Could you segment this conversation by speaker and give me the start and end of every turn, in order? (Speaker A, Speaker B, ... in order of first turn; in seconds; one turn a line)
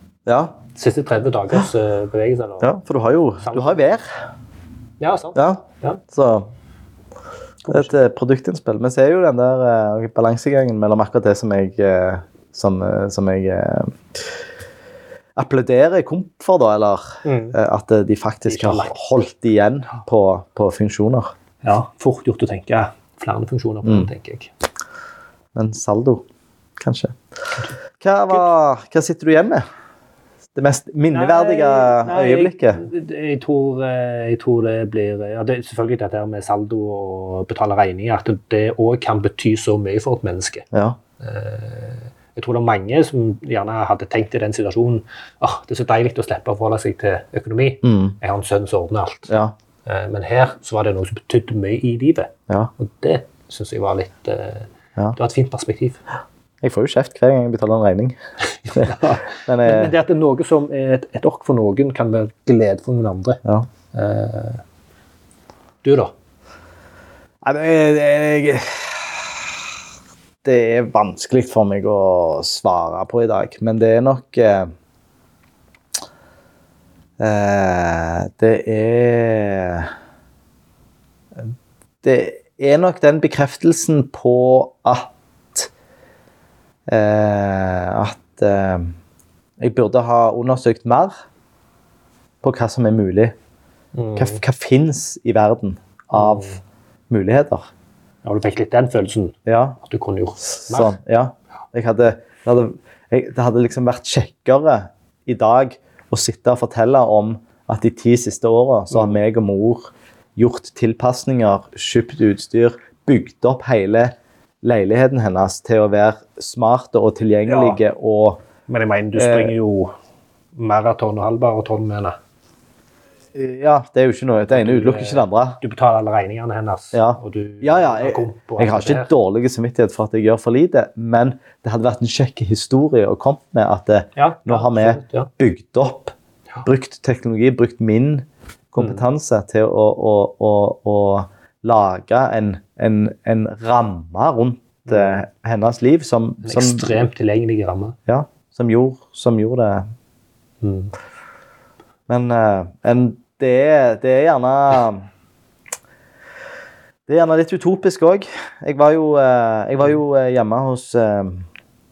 Speaker A: 0.2-0.6
Speaker B: 0.7-2.7
Speaker A: 2.6-4.1
Speaker B: 3.4-3.9
Speaker B: 5.0-6.0
Speaker A: 5.3-6.5
Speaker B: 7.6-8.0
Speaker A: 7.7-14.3
Speaker A: 15.3-21.3
Speaker B: 17.2-17.6
Speaker B: 18.5-18.9
Speaker B: 21.6-24.5
Speaker A: 23.8-24.1
Speaker A: 25.5-26.2
Speaker A: 26.8-27.1
Speaker A: 28.0-29.6
Speaker A: 30.6-32.8
Speaker B: 31.1-40.6
Speaker A: 40.7-41.0
Speaker B: 41.2-49.3
Speaker A: 47.8-48.1
Speaker A: 49.3-49.5
Speaker B: 49.8-56.0
Speaker A: 56.6-58.2
Speaker B: 58.6-63.4
Speaker A: 58.8-59.9
Speaker B: 63.9-64.6
Speaker B: 65.8-66.1
Speaker A: 67.4-69.5
Speaker A: 70.4-74.7
Speaker A: 77.2-79.9
Speaker A: 82.0-85.7
Speaker A: 86.9-88.9
Speaker A: 89.6-91.1
Speaker A: 92.4-93.3
Speaker B: 93.9-94.4
Speaker A: 94.2-96.5
Speaker B: 96.1-96.6
Speaker A: 97.1-97.7
Speaker B: 98.2-100.9
Speaker A: 99.5-99.8
Speaker A: 100.6-118.4
Speaker B: 117.5-117.8
Speaker B: 118.7-119.9
Speaker A: 119.1-119.5
Speaker B: 120.5-122.2
Speaker A: 123.3-125.6
Speaker B: 124.5-129.1
Speaker A: 126.9-147.0
Speaker B: 134.2-135.3
Speaker B: 138.8-139.0
Speaker B: 144.9-145.2
Speaker B: 146.4-148.0
Speaker A: 148.1-149.8
Speaker B: 150.6-150.9
Speaker A: 152.1-155.0
Speaker A: 157.1-161.4